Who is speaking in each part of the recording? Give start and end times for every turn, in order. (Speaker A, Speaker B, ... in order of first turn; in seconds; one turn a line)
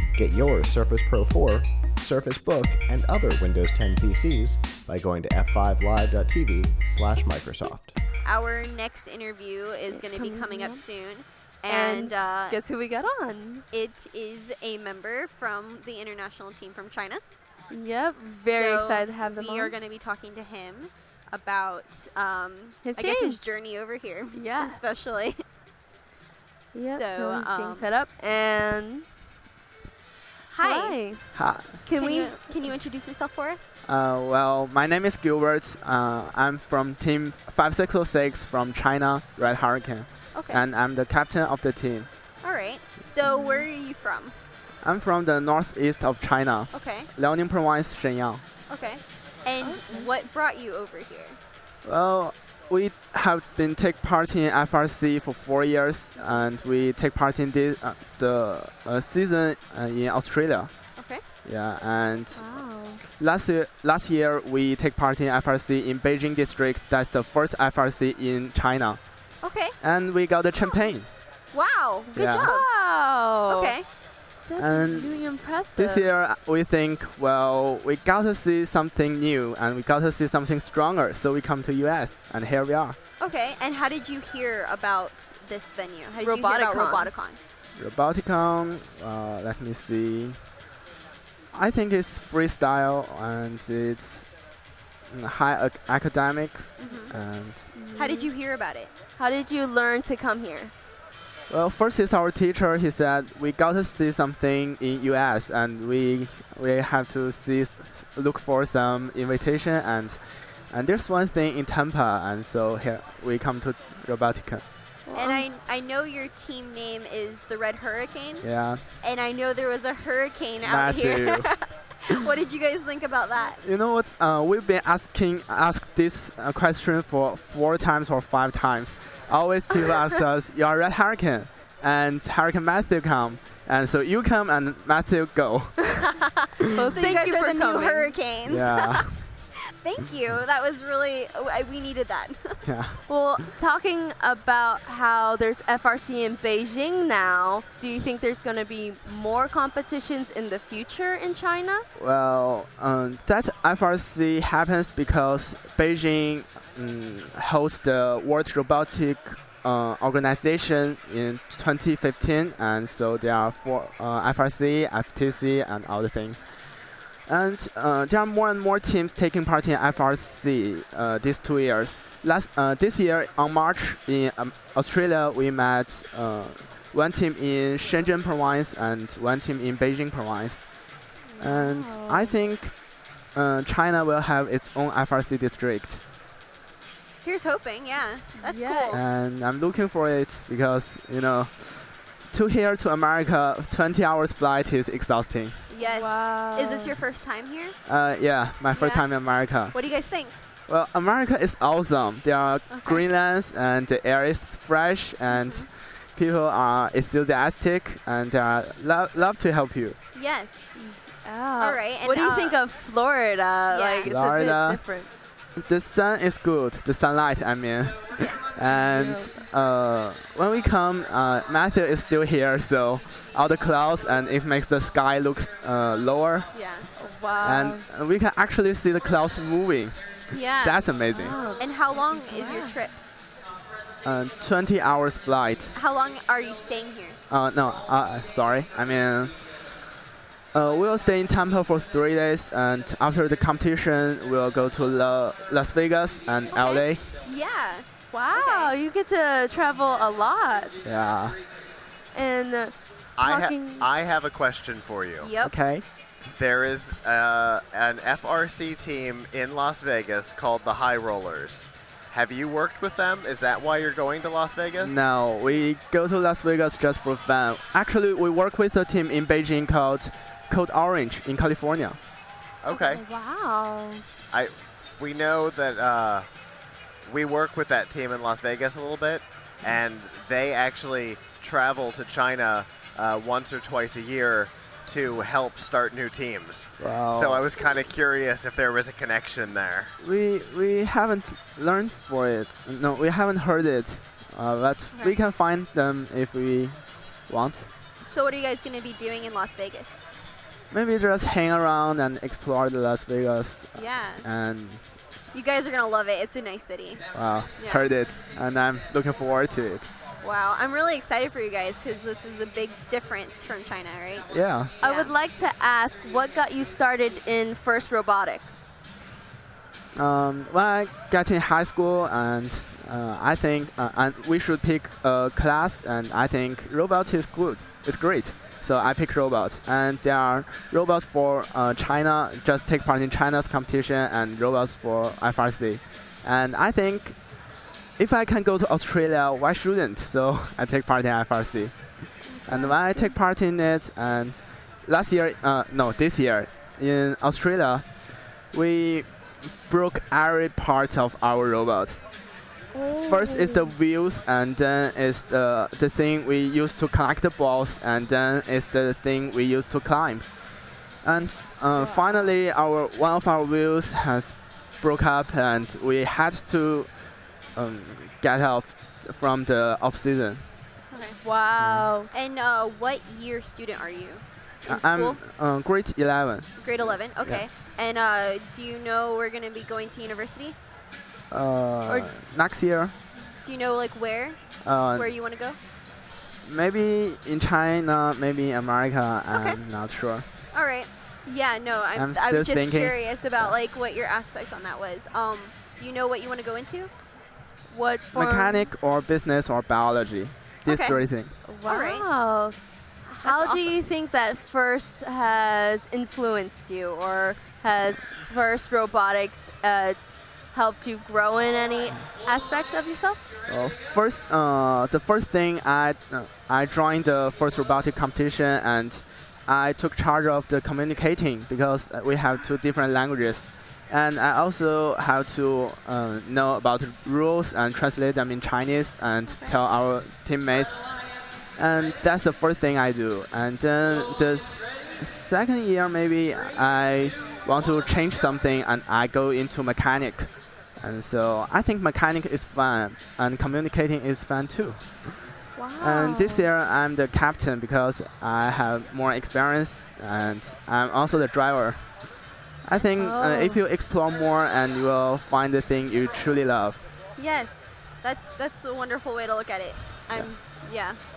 Speaker A: 0.2-8.0
Speaker B: 8.2-12.6
Speaker C: 9.9-10.8
Speaker C: 11.7-13.7
Speaker B: 13.7-17.2
Speaker C: 17.7-19.8
Speaker B: 18.5-25.4
Speaker C: 22.8-23.4
Speaker C: 24.3-25.0
Speaker C: 26.7-29.1
Speaker B: 26.9-27.9
Speaker B: 30.5-31.0
Speaker C: 30.6-32.7
Speaker D: 31.3-31.8
Speaker B: 31.9-33.8
Speaker D: 33.9-42.1
Speaker B: 40.3-40.7
Speaker B: 42.4-44.4
Speaker C: 43.2-43.7
Speaker D: 44.8-48.4
Speaker B: 46.7-47.1
Speaker B: 48.7-51.4
Speaker C: 49.6-50.1
Speaker D: 51.8-60.7
Speaker C: 56.2-56.4
Speaker B: 61.0-61.2
Speaker D: 61.4-62.6
Speaker C: 62.3-63.0
Speaker D: 63.1-69.0
Speaker B: 69.4-69.8
Speaker D: 69.8-71.1
Speaker B: 71.5-72.7
Speaker D: 72.1-72.5
Speaker C: 72.2-73.8
Speaker B: 73.5-73.8
Speaker C: 74.5-76.1
Speaker D: 74.6-83.0
Speaker B: 83.2-87.4
Speaker C: 86.2-87.1
Speaker D: 87.8-90.4
Speaker D: 91.5-94.3
Speaker D: 95.1-97.7
Speaker B: 96.8-97.1
Speaker C: 97.7-98.3
Speaker B: 97.9-98.9
Speaker C: 99.2-100.7
Speaker D: 101.5-114.6
Speaker C: 115.1-115.5
Speaker B: 115.1-123.6
Speaker D: 118.4-118.8
Speaker D: 120.7-121.5
Speaker D: 123.6-135.9
Speaker B: 136.1-142.7
Speaker C: 136.7-138.1
Speaker D: 138.5-139.1
Speaker D: 142.7-143.0
Speaker C: 143.1-151.8
Speaker D: 151.9-180.7
Speaker C: 181.3-182.3
Speaker D: 181.4-182.8
Speaker D: 183.3-186.0
Speaker B: 187.2-189.1
Speaker C: 188.4-188.9
Speaker D: 188.9-195.6
Speaker B: 195.7-197.8
Speaker C: 195.8-197.0
Speaker D: 197.9-199.8
Speaker B: 198.7-200.3
Speaker D: 200.7-210.0
Speaker B: 202.7-203.1
Speaker B: 205.3-205.7
Speaker B: 210.1-210.7
Speaker C: 210.8-215.1
Speaker B: 211.6-212.6
Speaker B: 213.7-214.1
Speaker D: 214.1-215.0
Speaker D: 215.6-226.5
Speaker B: 218.2-218.4
Speaker C: 218.7-219.4
Speaker B: 226.5-226.9
Speaker C: 227.0-227.8
Speaker D: 227.4-230.0
Speaker B: 230.3-230.9
Speaker D: 230.6-231.4
Speaker C: 231.1-232.8
Speaker B: 231.5-233.0
Speaker D: 234.0-235.8
Speaker B: 235.7-237.2
Speaker D: 237.3-239.8
Speaker D: 240.5-247.2
Speaker B: 246.5-248.7
Speaker C: 248.1-250.9
Speaker D: 250.8-251.4
Speaker C: 252.1-253.9
Speaker E: 253.2-255.4
Speaker B: 255.2-255.6
Speaker D: 255.4-255.9
Speaker E: 256.3-265.1
Speaker D: 264.8-272.0
Speaker E: 272.6-273.0
Speaker C: 272.7-274.1
Speaker E: 274.3-276.3
Speaker E: 277.1-289.9
Speaker D: 286.8-287.4
Speaker D: 290.0-297.7
Speaker B: 298.1-300.1
Speaker D: 300.7-304.8
Speaker B: 303.7-304.3
Speaker B: 305.3-307.9
Speaker D: 307.1-309.9
Speaker B: 310.2-314.3
Speaker D: 314.3-314.7
Speaker C: 314.8-318.7
Speaker B: 314.8-315.1
Speaker D: 319.9-352.0
Speaker B: 342.2-342.7
Speaker C: 342.5-343.1
Speaker C: 352.7-353.7
Speaker D: 352.9-360.4
Speaker D: 361.0-370.4
Speaker C: 361.7-362.3
Speaker B: 370.9-371.2
Speaker C: 371.2-372.1
Speaker D: 371.6-371.9
Speaker B: 372.1-375.2
Speaker D: 374.6-376.5
Speaker B: 376.6-380.6
Speaker D: 381.3-382.9
Speaker B: 383.4-385.6
Speaker D: 384.6-385.1
Speaker D: 386.4-390.3
Speaker B: 389.3-389.6
Speaker B: 390.5-396.9
Speaker D: 391.9-393.5
Speaker C: 397.7-398.7
Speaker D: 398.1-401.3
Speaker B: 400.7-401.1
Speaker C: 400.9-410.0
Speaker B: 401.7-402.1
Speaker B: 403.2-403.8
Speaker C: 410.5-413.2
Speaker D: 413.5-430.9
Speaker B: 429.2-429.6
Speaker D: 431.5-445.2
Speaker C: 445.6-446.5
Speaker D: 445.8-452.1
Speaker D: 452.6-456.8
Speaker C: 453.0-453.6
Speaker B: 457.2-461.0